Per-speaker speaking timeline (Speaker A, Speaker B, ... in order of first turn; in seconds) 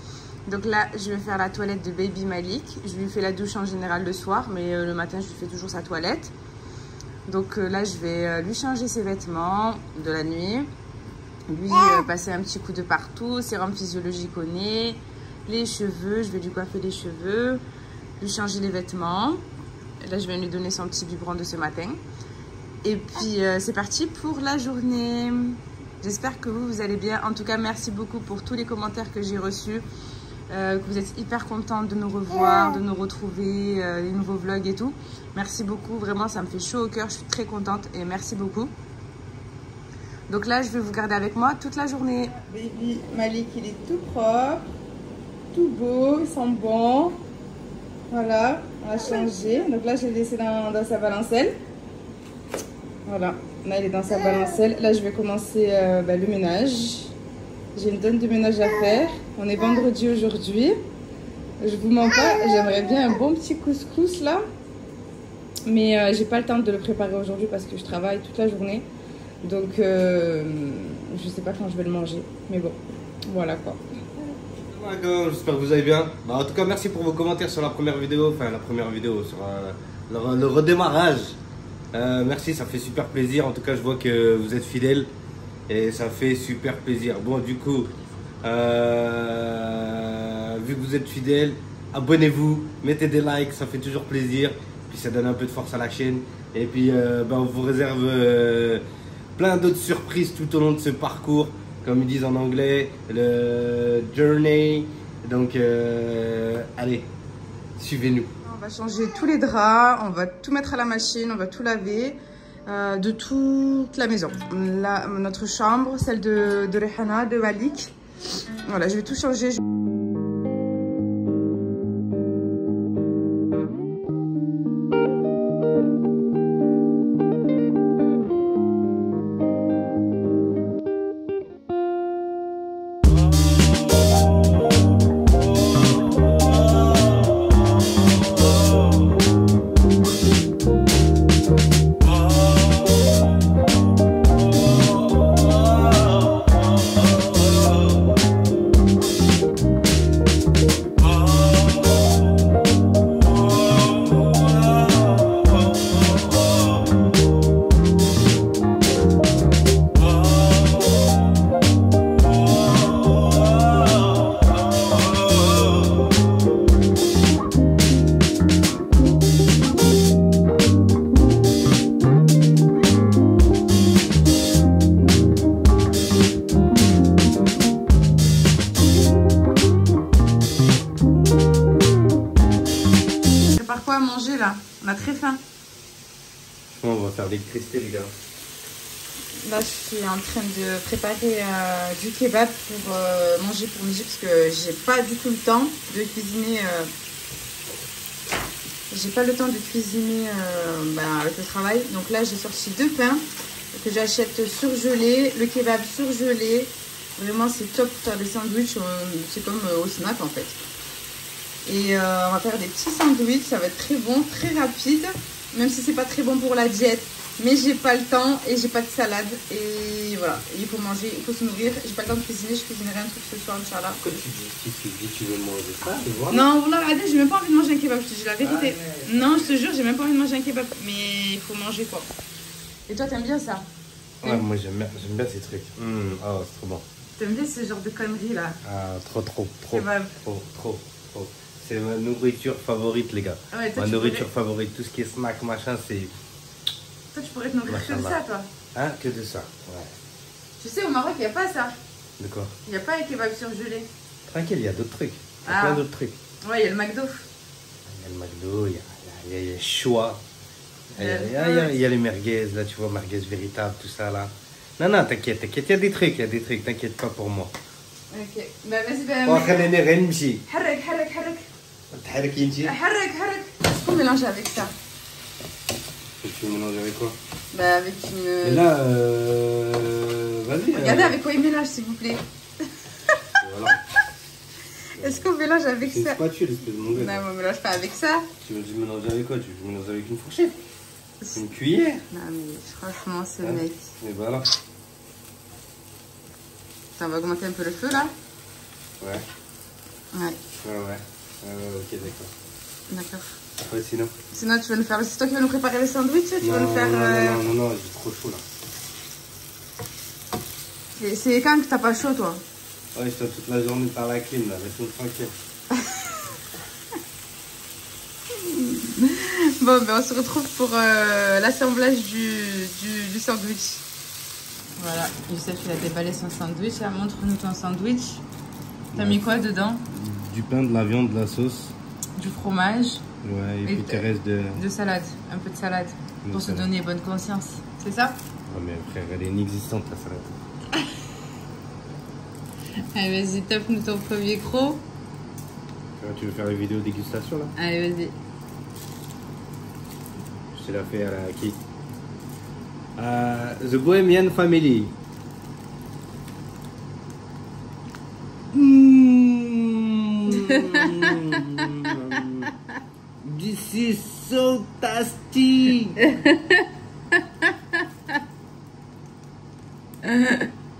Speaker A: 0.5-6.3, 7.3-10.7, 11.5-17.6, 18.2-19.4, 20.0-22.0, 22.8-29.8, 30.5-38.7, 40.3-44.7, 45.5-47.1, 48.1-51.5, 53.0-57.1, 57.7-60.8, 61.6-64.4, 65.7-68.9, 69.4-73.8, 108.4-117.9, 118.6-119.6, 183.5-185.4, 189.4-196.9, 198.9-210.6, 211.6-224.0, 226.3-232.1, 232.9-233.7, 237.2-238.6, 239.7-240.1, 243.5-244.3, 247.1-248.5, 250.6-251.7, 252.7-253.9, 255.4-255.8, 256.4-257.3, 261.0-261.8, 268.1-269.7, 270.4-271.4, 272.6-274.7, 277.5-278.6, 280.7-282.2, 285.0-286.2, 286.9-288.3, 292.1-293.9, 297.0-298.1, 300.1-300.4, 302.9-303.4, 304.3-307.4, 311.0-312.4, 315.8-316.2, 318.3-323.8, 324.8-328.2, 328.9-329.8, 332.1-333.0, 333.6-334.0, 334.5-338.1, 342.9-344.8, 347.6-348.1, 360.3-362.2, 366.0-368.1, 370.0-370.5
Speaker B: 74.6-81.4, 81.9-85.1, 85.7-87.9, 88.4-98.8, 99.4-107.1, 107.8-108.3, 186.7-188.1, 224.0-226.4, 228.4-229.5, 234.2-236.8, 238.6-246.1, 247.7-248.2, 248.7-249.9, 252.2-252.5, 254.3-256.1, 257.9-260.2, 260.9-267.5, 269.2-270.4, 271.9-272.7, 276.2-277.2, 278.4-281.2, 283.4-283.8, 285.0-285.3, 285.8-287.2, 288.4-290.6, 291.3-292.0, 293.4-294.5, 299.0-299.2, 300.6-302.3, 303.6-304.1, 306.4-308.4, 312.9-315.3, 328.9-329.2, 329.9-331.7, 333.2-334.6, 336.2-336.7, 338.5-340.3, 346.0-347.5, 350.5-351.6, 353.0-354.9, 358.5-362.5, 363.2-366.1